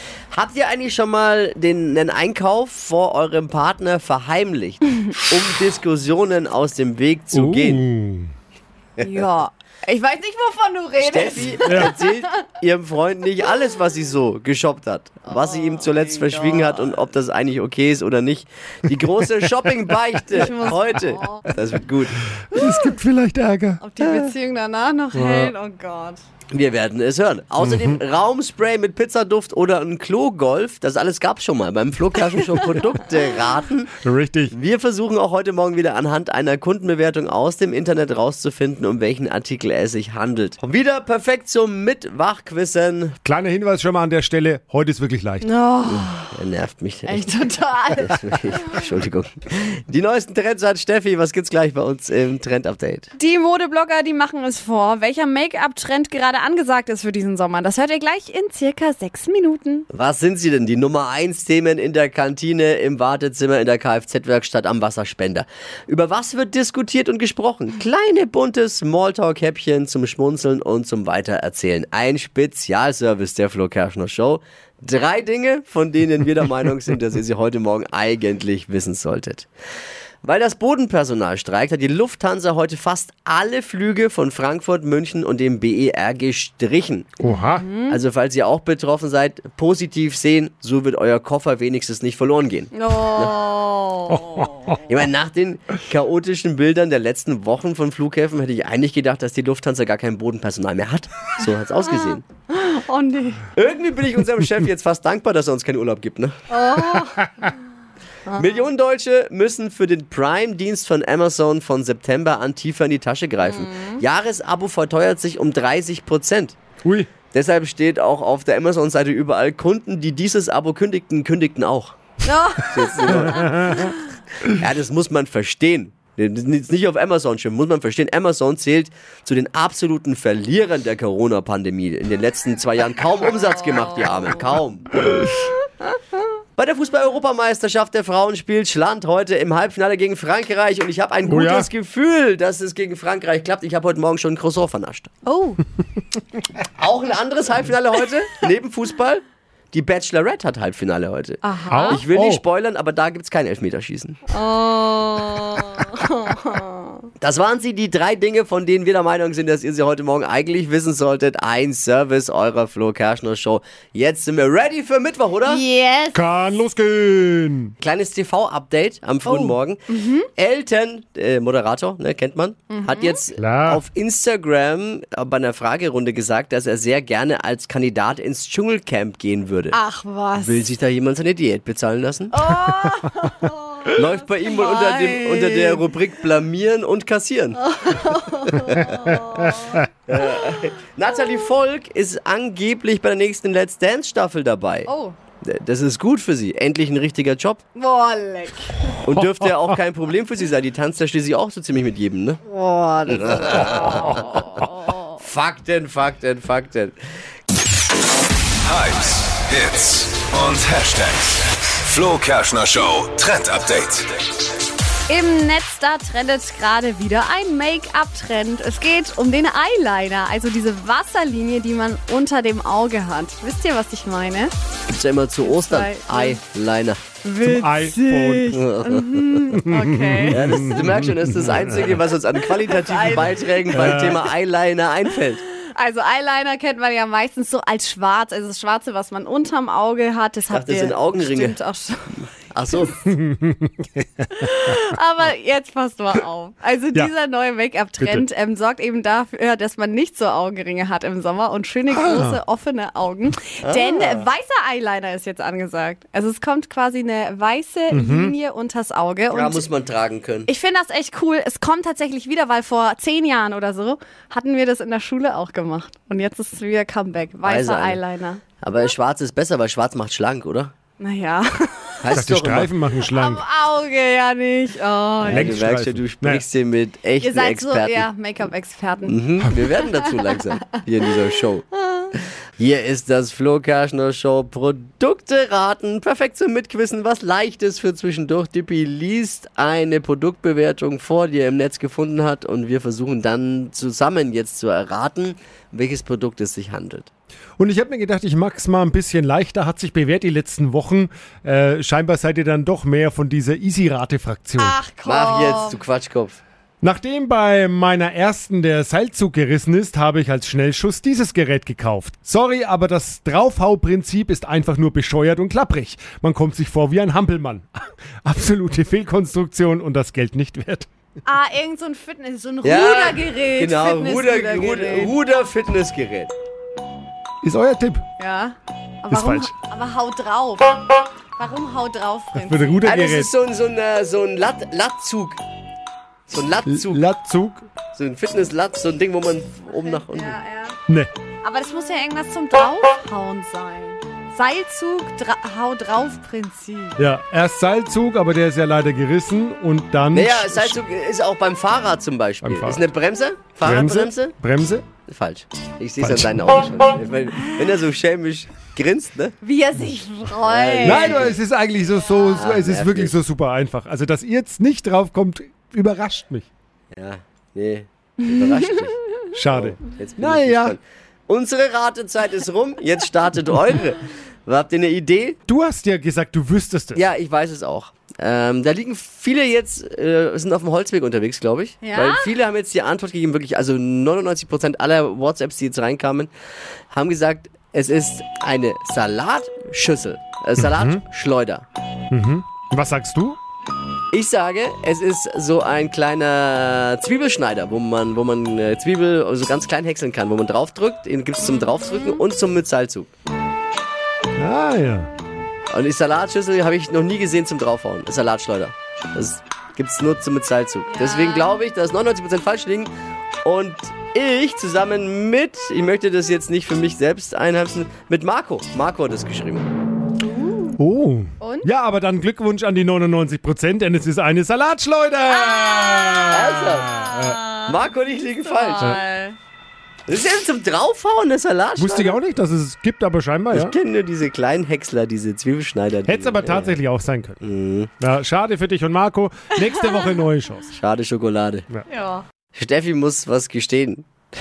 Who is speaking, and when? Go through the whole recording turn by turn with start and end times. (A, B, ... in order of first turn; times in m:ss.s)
0:00.3-0:07.8 A
0:07.3-0:08.3 B
0:09.0-0:12.3 C
0:11.0-0:22.2 A
0:11.6-0:12.0 B
0:15.3-0:17.0 C
0:19.0-0:19.4 B
0:20.3-0:21.5 C
0:22.4-0:23.8 B
0:23.8-0:26.2 C
0:24.0-0:24.3 A
0:25.1-0:25.5 B
0:26.5-0:34.0 A
0:27.6-0:28.0 B
0:34.0-0:34.5 B
0:34.5-0:43.2 A
0:43.2-0:45.5 B
0:45.4-0:46.4 C
0:45.8-0:53.1 A
0:47.0-0:48.8 C
0:53.2-0:59.9 C
0:59.9-1:19.5 A
1:20.2-1:27.2 A
1:27.2-1:27.6 B
1:27.3-1:28.0 C
1:27.8-1:33.4 A
1:32.7-1:34.7 C
1:34.1-1:34.8 B
1:34.9-1:42.2 A
1:41.8-1:43.5 C
1:43.6-1:46.4 A
1:46.5-1:47.5 C
1:48.3-1:48.6 C
1:48.4-1:56.6 A
1:53.4-1:54.0 C
1:56.8-1:57.1 B
1:57.2-2:03.9 A
2:02.2-2:04.0 C
2:03.3-2:03.8 B
2:04.5-2:15.0 A
2:16.6-2:25.1 A
2:21.2-2:21.7 B
2:25.2-2:25.6 C
2:26.8-2:34.2 A
2:31.4-2:32.0 C
2:31.7-2:32.4 B
2:34.3-2:37.0 C
2:37.2-2:45.6 A
2:45.4-2:46.3 C
2:46.1-2:47.7 B
2:47.8-2:49.8 A
2:49.2-2:50.3 C
2:50.4-2:59.8 A
2:52.7-2:53.2 C
2:53.4-2:53.8 B
2:59.7-3:00.7 C
3:00.4-3:02.5 A
3:02.3-3:05.9 C
3:04.0-3:07.6 A
3:07.6-3:09.8 C
3:09.5-3:09.8 B
3:10.1-3:14.9 A
3:14.8-3:15.2 C
3:15.4-3:17.6 A
3:17.8-3:19.0 C
3:19.0-3:22.4 A
3:22.5-3:25.1 C
3:23.1-3:24.2 A
3:25.2-3:27.0 A
3:28.6-3:34.1 D
3:35.1-3:44.5 C
3:44.9-3:47.0 A
3:45.4-3:46.4 C
3:47.2-3:50.8 C
3:47.4-3:48.6 B
3:48.5-3:49.6 A
3:49.6-3:52.0 B
3:50.3-3:55.4 A
3:52.5-3:54.3 C
3:53.8-3:54.2 B
3:55.7-4:02.2 C
4:00.5-4:01.6 A
4:02.5-4:03.0 A
4:03.1-4:04.3 B
4:04.3-4:19.7 C
4:11.9-4:12.4 B
4:13.6-4:14.3 A
4:17.9-4:18.3 B
4:19.3-4:20.5 A
4:20.4-4:28.4 C
4:27.4-4:28.0 A
4:28.6-4:30.7 A
4:31.0-4:32.1 C
4:32.0-4:32.7 A
4:32.1-4:33.4 B
4:33.1-4:35.6 C
4:35.2-4:38.1 A
4:35.2-4:36.4 B
4:37.2-4:40.1 C
4:39.1-4:57.1 A
4:41.8-4:42.1 C
4:57.6-5:04.8 B
5:04.6-5:05.8 C
5:05.0-5:06.4 A
5:06.8-5:17.7 B
5:18.2-5:20.9 B
5:21.2-5:25.1 C
5:22.6-5:26.3 A
5:27.4-5:28.0 B
5:28.2-5:32.8 C
5:29.1-5:29.5 B
5:32.3-5:33.3 B
5:32.8-5:35.4 A
5:36.3-5:37.1 A
5:36.6-5:37.6 B
5:37.9-5:40.4 A
5:39.7-5:40.8 C
5:41.4-5:47.0 C
5:47.0-5:50.8 B
5:50.1-5:54.4 A
5:52.4-5:52.9 B
5:53.6-5:54.9 B
5:55.0-5:59.4 A
5:56.0-5:56.4 B
5:57.3-5:57.8 C
5:59.4-6:01.3 C
6:00.4-6:01.4 A
6:00.8-6:06.5 B
6:02.3-6:03.2 A
6:06.9-6:15.4 A
6:09.3-6:10.8 B
6:15.5-6:17.0 B
6:17.0-6:26.3 A
6:21.8-6:22.3 C
6:26.9-6:31.6 A
6:30.6-6:31.0 B
6:32.1-6:33.4 B
6:34.1-6:43.1 A
6:44.4-6:45.1 B
6:45.7-6:52.9 A
6:50.9-6:51.6 C
6:53.4-6:59.7 A
7:00.2-7:00.8 C
7:00.8-7:07.5 B
7:01.4-7:01.7 C
7:05.5-7:06.3 C
7:06.3-7:07.0 A
7:06.8-7:09.4 C
7:07.6-7:08.9 A
7:10.1-7:12.2 A
7:11.8-7:13.8 B
7:13.5-7:16.8 A
7:16.0-7:17.4 B
7:17.4-7:17.9 A
7:18.0-7:20.8 B
7:19.7-7:20.1 C
7:20.8-7:21.6 A
7:21.9-7:22.2 C
7:22.5-7:24.1 A